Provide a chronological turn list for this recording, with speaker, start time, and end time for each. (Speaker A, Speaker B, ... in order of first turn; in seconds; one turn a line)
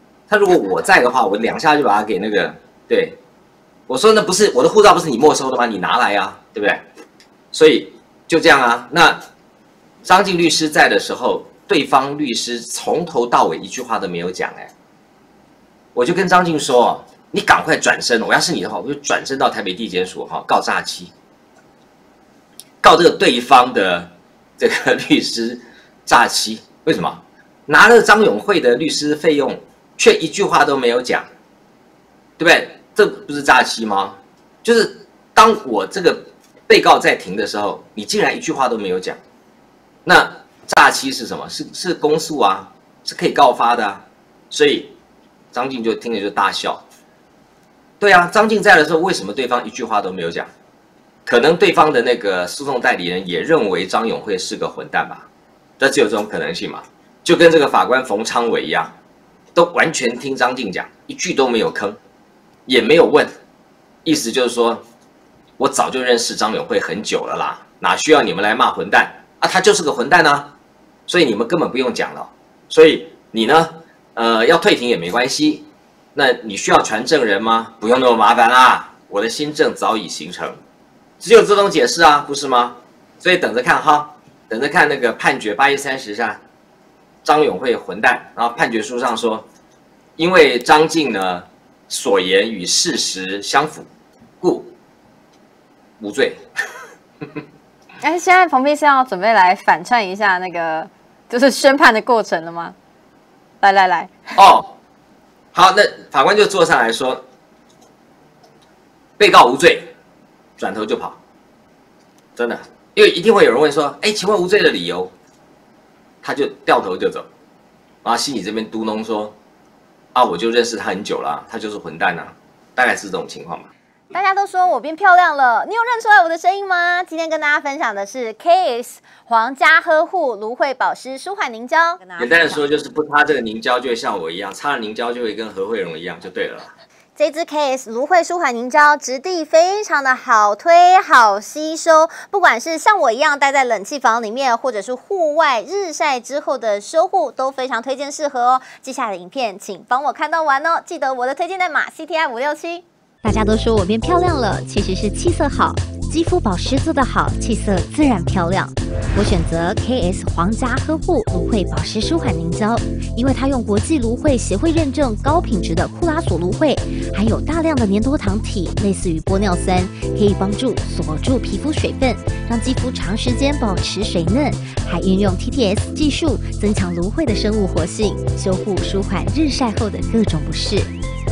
Speaker A: 0.3-3.2
Speaker A: 3.9-6.8
Speaker A: 7.5-9.2
Speaker A: 10.0-14.7
Speaker A: 15.9-21.1
Speaker A: 22.8-31.3
Speaker A: 32.4-39.2
Speaker A: 40.0-45.0
Speaker A: 45.5-46.8
Speaker A: 48.0-50.5
Speaker A: 51.2-55.3
Speaker A: 55.8-58.9
Speaker A: 59.5-62.0
Speaker A: 62.6-63.3
Speaker A: 64.0-64.8
Speaker A: 65.6-70.5
Speaker A: 71.1-80.6
Speaker A: 81.2-86.4
Speaker A: 87.2-89.5
Speaker A: 90.2-93.9
Speaker A: 94.4-94.7
Speaker A: 96.0-96.4
Speaker B: 98.0-102.8
Speaker B: 103.6-104.4
Speaker A: 104.3-104.7
Speaker A: 105.5-107.2
Speaker A: 109.2-109.9
Speaker A: 110.6-111.2
Speaker A: 112.4-115.1
Speaker A: 116.2-117.3
Speaker A: 118.0-119.3
Speaker A: 120.1-123.7
Speaker B: 124.1-132.6
Speaker A: 132.2-136.7
Speaker B: 137.2-152.8
Speaker C: 153.2-180.9
Speaker B: 153.5-155.6
Speaker B: 156.2-158.6
Speaker B: 159.3-159.8
Speaker B: 160.4-162.6
Speaker B: 163.4-166.4
Speaker B: 168.1-180.7